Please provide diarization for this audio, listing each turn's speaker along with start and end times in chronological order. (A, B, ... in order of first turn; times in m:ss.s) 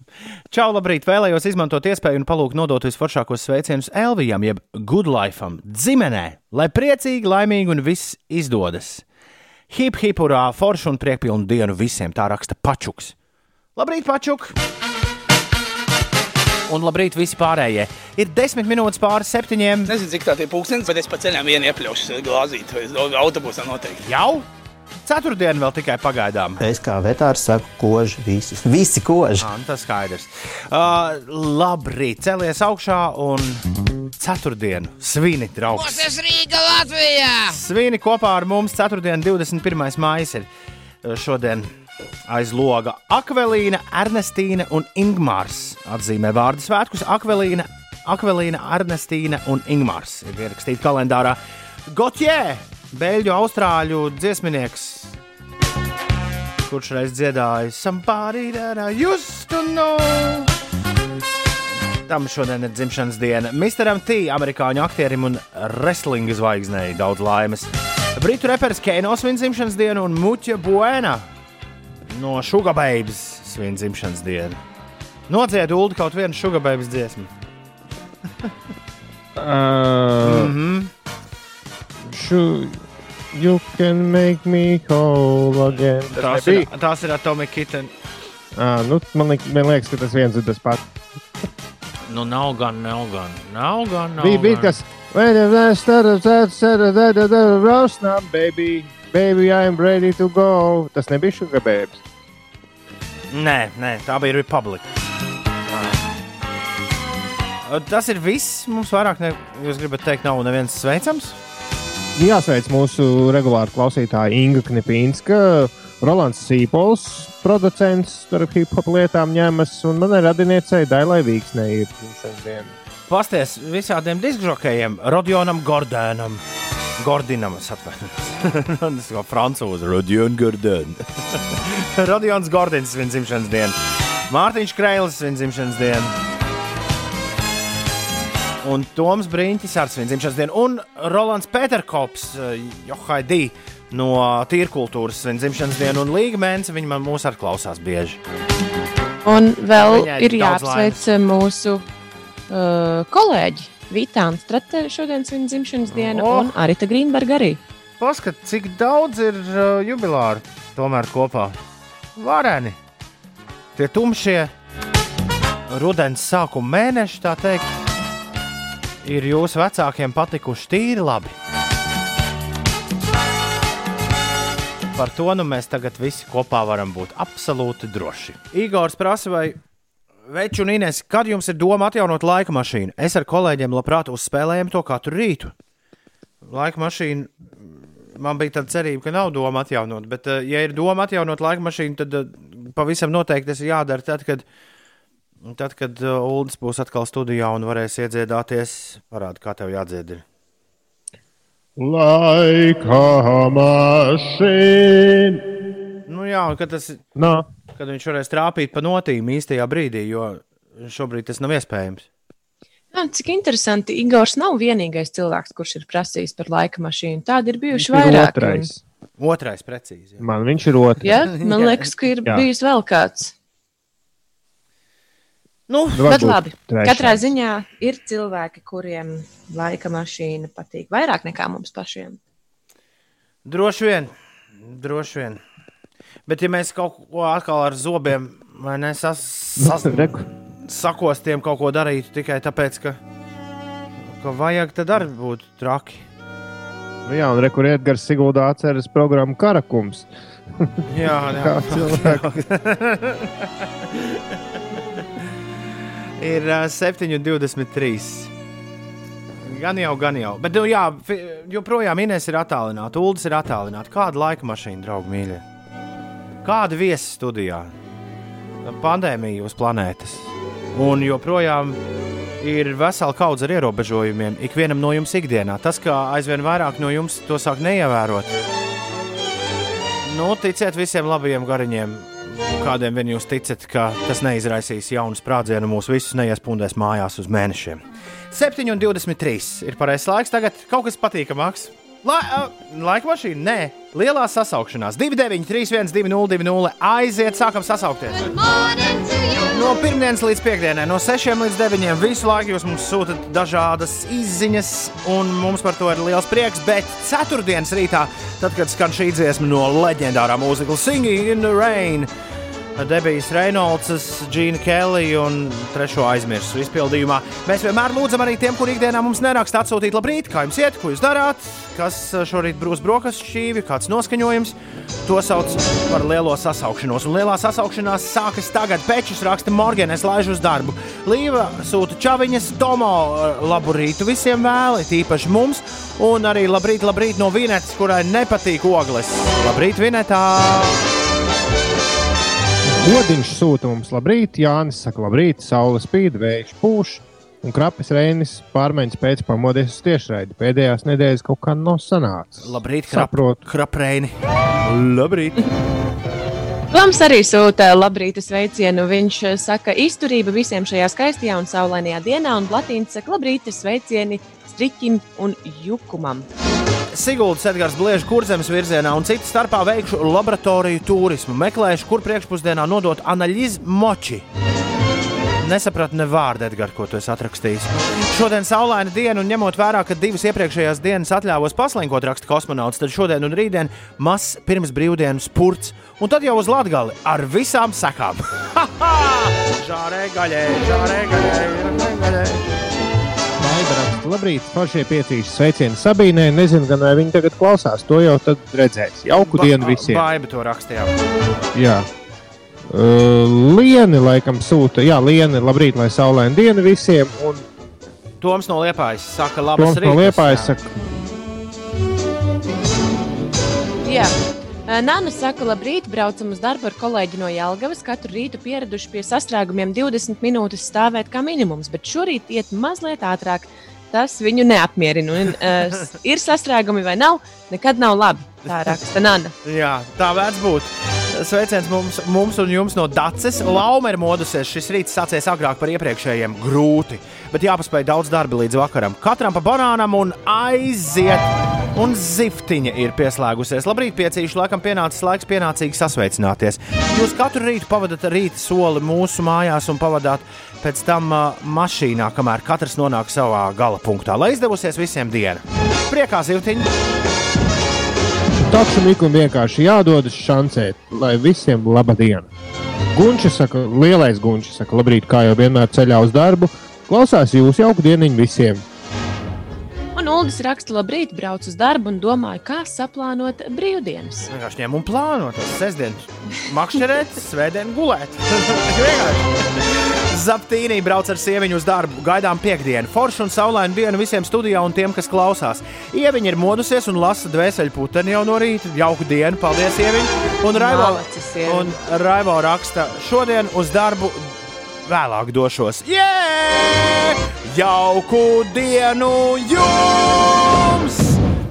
0:00.5-0:09.0 A
0:09.7-0:13.1 A
0:13.8-0:14.5 A
0:16.7-0:19.9 A
0:19.9-0:24.0 B
0:24.0-0:24.4 A
0:25.0-0:26.6 A
0:26.6-0:29.4 C
0:29.4-0:33.6 A
0:34.2-0:36.4 A
0:37.3-0:40.5 A
0:41.0-0:41.7 A
0:42.3-0:55.2 A
0:56.6-1:00.5 A
1:02.0-1:11.3 A
1:12.1-1:14.6 A
1:15.3-1:17.3 A
1:19.4-1:20.5 D
1:20.2-1:20.9 A
1:22.1-1:26.7 D
1:26.1-1:27.9 A
1:28.5-1:30.8 D
1:32.1-1:34.7 A
1:34.2-1:42.0 D
1:43.3-1:44.9 A
1:45.7-1:46.0 D
1:47.6-1:51.4 A
1:52.2-2:02.7 D
2:03.1-2:06.4 A
2:07.0-2:13.8 A
2:14.3-2:16.1 A
2:18.6-2:28.2 A
2:29.2-2:31.8 E
2:29.8-2:31.0 A
2:32.5-2:37.6 E
2:35.9-2:36.5 A
2:38.0-2:41.6 A
2:42.2-2:42.8 A
2:43.8-2:44.5 A
2:45.7-2:47.7 A
2:49.0-2:51.3 A
2:54.9-2:59.6 A
3:00.3-3:05.5 A
3:06.4-3:14.4 A
3:15.4-3:20.2 A
3:21.8-3:25.4 D
3:26.1-3:27.0 A
3:27.2-3:27.5 D
3:27.8-3:32.0 A
3:32.9-3:38.7 E
3:37.7-3:38.8 D
3:39.2-3:40.3 A
3:40.2-3:41.2 D
3:41.0-3:43.3 E
3:41.4-3:41.9 A
3:45.7-3:46.1 A
3:45.9-3:47.2 D
3:46.0-3:52.2 E
3:53.4-3:55.4 A
3:56.3-4:03.0 A
3:59.6-4:00.2 D
4:04.1-4:06.0 A
4:07.0-4:12.3 D
4:10.9-4:14.2 A
4:16.2-4:18.3 A
4:19.4-4:25.4 A
4:26.4-4:27.7 A
4:28.6-4:31.8 A
4:32.4-4:38.3 A
4:40.0-4:58.6 A
4:59.2-5:12.1 A
5:12.8-5:40.8 A
5:42.6-5:53.4 D
5:52.4-5:55.5 A
5:56.7-6:06.2 E
6:06.9-6:14.2 A
6:15.4-6:32.5 A
6:33.4-6:40.0 D
6:39.3-6:40.9 A
6:41.5-6:41.9 D
6:42.7-6:47.4 D
6:48.2-6:50.6 A
6:49.6-6:50.7 D
6:53.8-6:54.1 E
6:54.7-7:09.3 E
7:09.4-7:36.7 A
7:38.4-7:42.3 D
7:42.9-7:48.6 D
7:49.9-7:54.3 E
7:54.3-8:14.3 A
8:10.5-8:11.7 E
8:14.8-8:21.2 A